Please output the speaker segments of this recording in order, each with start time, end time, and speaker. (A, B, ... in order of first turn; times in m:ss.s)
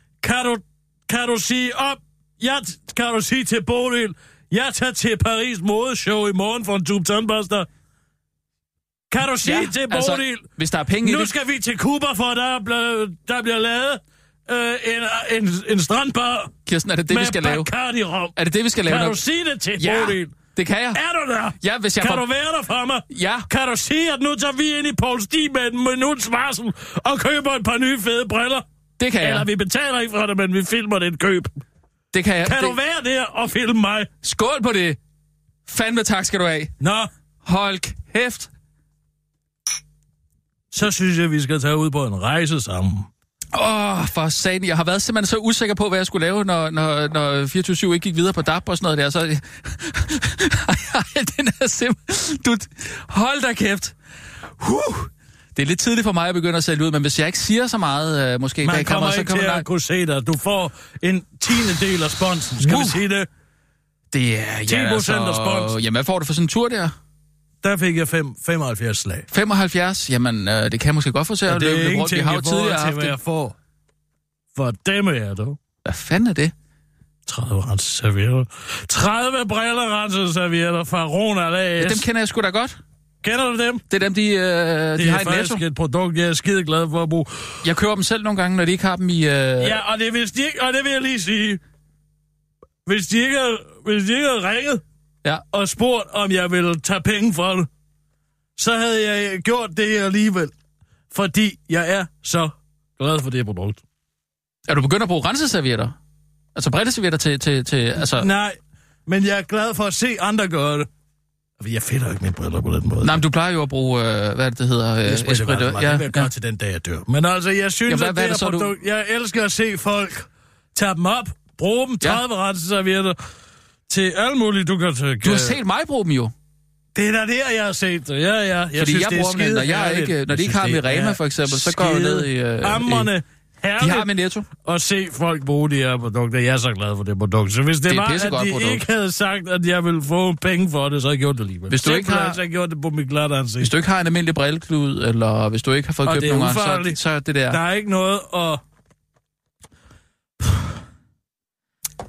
0:00.2-0:07.7 A
0:09.1-0:10.4 A
0:09.4-0:11.3 B
0:11.0-0:16.5 A
0:16.6-0:17.7 B
0:17.1-0:20.3 A
0:18.3-0:19.2 B
0:19.8-0:21.0 B
0:20.9-0:28.6 A
0:21.6-0:22.2 B
0:23.1-0:23.5 B
0:29.0-0:29.5 B
0:29.2-0:31.5 A
0:32.1-0:32.8 B
0:32.4-0:34.1 A
0:34.2-0:35.0 B
0:35.6-0:36.7 B
0:36.8-0:37.1 A
0:37.4-0:38.5 B
0:40.7-0:43.1 A
0:43.5-0:53.9 B
0:54.6-0:59.6 B
0:58.6-1:03.3 A
1:02.6-1:03.0 B
1:04.1-1:06.9 B
1:04.6-1:05.8 A
1:07.6-1:09.3 A
1:09.3-1:13.2 B
1:11.4-1:13.6 A
1:14.5-1:15.6 A
1:15.8-1:16.5 B
1:17.2-1:22.0 A
1:21.8-1:22.8 B
1:23.2-1:23.8 A
1:23.9-1:25.6 B
1:25.0-1:27.6 A
1:27.6-1:29.8 B
1:29.6-1:31.6 A
1:32.8-1:34.8 A
1:35.5-1:37.7 A
1:38.6-1:40.5 A
1:41.1-1:43.8 A
1:44.7-1:45.9 B
1:46.5-1:48.3 B
1:48.0-1:50.9 A
1:51.6-1:53.2 A
1:53.0-1:56.3 B
1:55.0-2:03.2 A
1:57.9-1:58.7 B
2:03.9-2:05.6 A
2:05.2-2:06.3 B
2:06.9-2:23.7 A
2:08.7-2:13.1 B
2:13.8-2:14.5 B
2:17.9-2:18.8 B
2:21.7-2:22.4 B
2:23.6-2:27.6 B
2:26.0-2:28.6 A